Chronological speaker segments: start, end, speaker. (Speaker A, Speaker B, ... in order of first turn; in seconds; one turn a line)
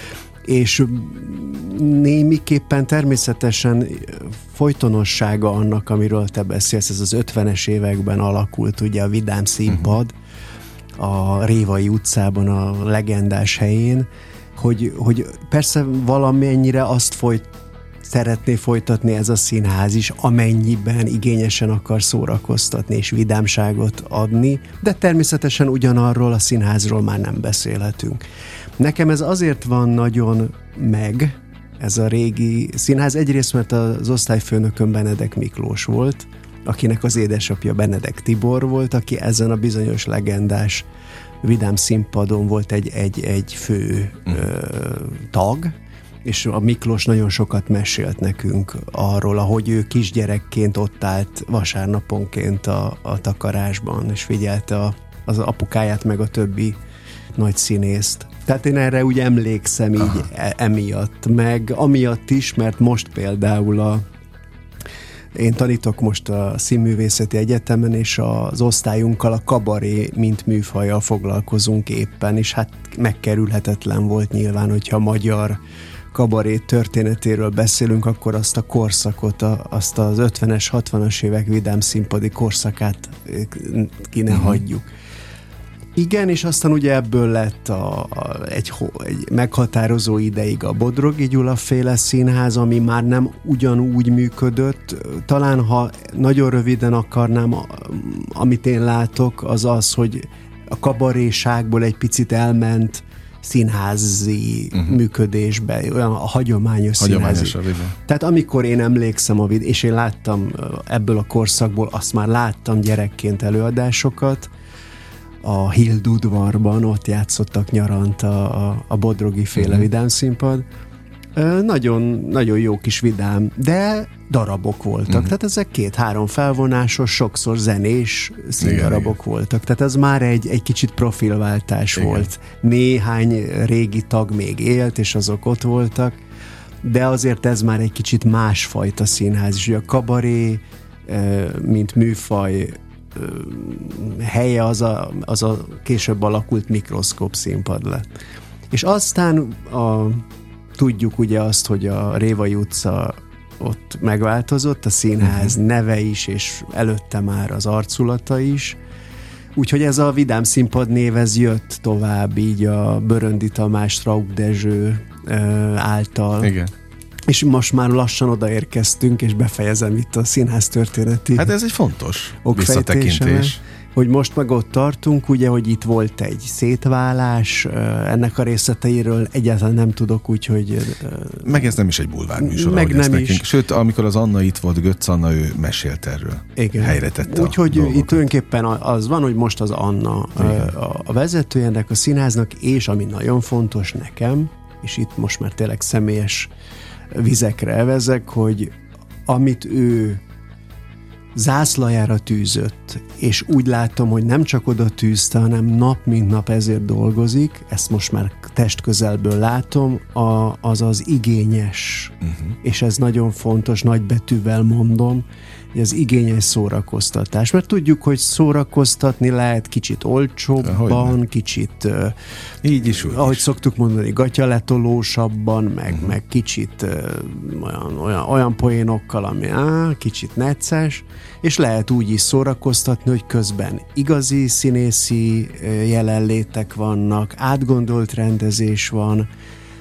Speaker A: 0.5-10.1
Speaker A: 11.0-17.5
Speaker A: 18.0-28.2
Speaker A: 28.8-40.9
Speaker A: 41.4-56.8
Speaker A: 57.4-64.0
Speaker A: 65.3-75.6
Speaker A: 76.1-84.9
Speaker B: 84.3-84.6
Speaker A: 86.0-114.5
Speaker B: 107.0-108.0
Speaker A: 115.4-120.7
Speaker B: 119.5-119.9
Speaker A: 121.4-136.2
Speaker B: 128.6-129.1
Speaker B: 132.0-132.3
Speaker A: 136.8-148.1
Speaker A: 148.7-150.2
Speaker A: 150.8-158.8
Speaker B: 155.2-155.5
Speaker A: 159.6-166.6
Speaker B: 166.4-166.7
Speaker A: 167.3-171.5
Speaker B: 171.3-173.6
Speaker A: 172.4-181.7
Speaker B: 181.4-188.2
Speaker A: 182.4-183.5
Speaker A: 186.6-196.5
Speaker B: 190.4-190.7
Speaker A: 197.2-198.7
Speaker A: 199.3-200.2
Speaker A: 201.3-222.2
Speaker B: 212.3-212.6
Speaker B: 220.6-221.2
Speaker B: 222.6-223.4
Speaker A: 222.8-239.3